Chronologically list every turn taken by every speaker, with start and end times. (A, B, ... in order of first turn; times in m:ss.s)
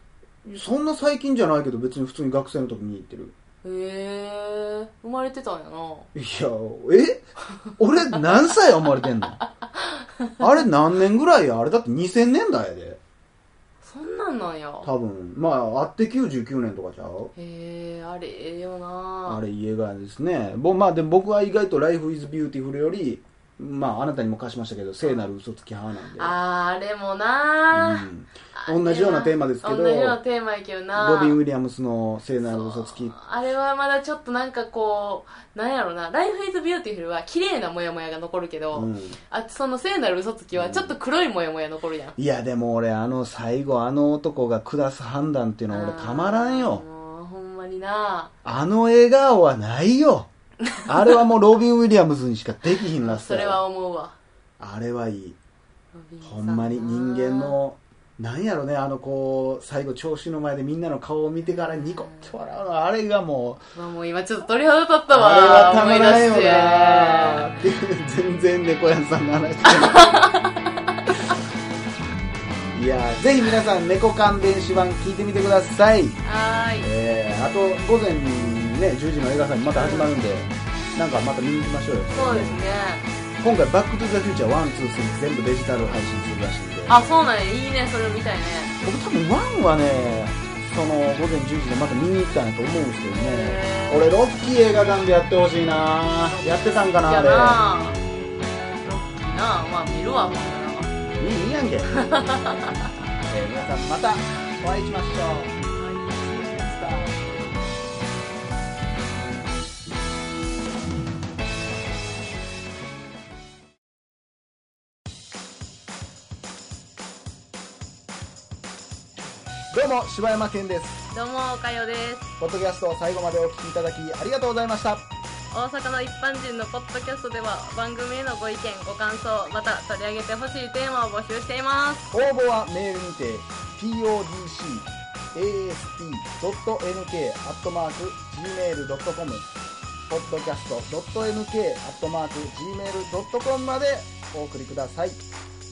0:00.4-0:03.3 A
0:03.6-0:06.1 B
0:06.1-0:07.2 A
0:07.8-0:09.4 A
0:09.8-0:10.3 B
0:10.4-0:13.0 A
0:13.8-0:14.9 B
0:14.8-0:17.3 A
0:17.4-0:19.4 B
0:19.3-0:26.4 A
0:25.0-0:25.3 B
0:26.2-0:31.4 B
0:27.7-0:30.2 A
0:31.0-0:33.1 A
0:32.4-0:42.2 B
0:38.7-0:39.2 A
0:40.6-0:41.0 A
0:42.2-0:46.8 A
0:45.7-0:48.3 B
0:48.4-0:50.3 A
0:50.9-0:53.6 A
0:53.0-0:54.2 B
0:54.6-0:55.4 A
0:55.9-0:57.6 B
0:56.2-1:03.6 A
1:01.9-1:02.3 B
1:03.7-1:07.5 B
1:05.1-1:10.3 A
1:09.7-1:10.5 B
1:12.7-1:16.2 A
1:16.2-1:16.9 B
1:16.8-1:22.6 A
1:19.7-1:20.1 B
1:22.1-1:23.1 B
1:23.4-1:27.0 A
1:26.9-1:28.8 B
1:28.8-1:37.6 A
1:33.2-1:34.1 B
1:37.0-1:38.0 B
1:38.8-1:40.9 B
1:41.2-1:42.1 A
1:42.0-1:42.8 B
1:43.3-1:47.6 A
1:59.7-2:01.0 A
2:01.1-2:02.3 B
2:02.4-2:05.0 A
2:05.5-2:12.1 B
2:12.1-2:19.4 A
2:20.1-2:25.2 A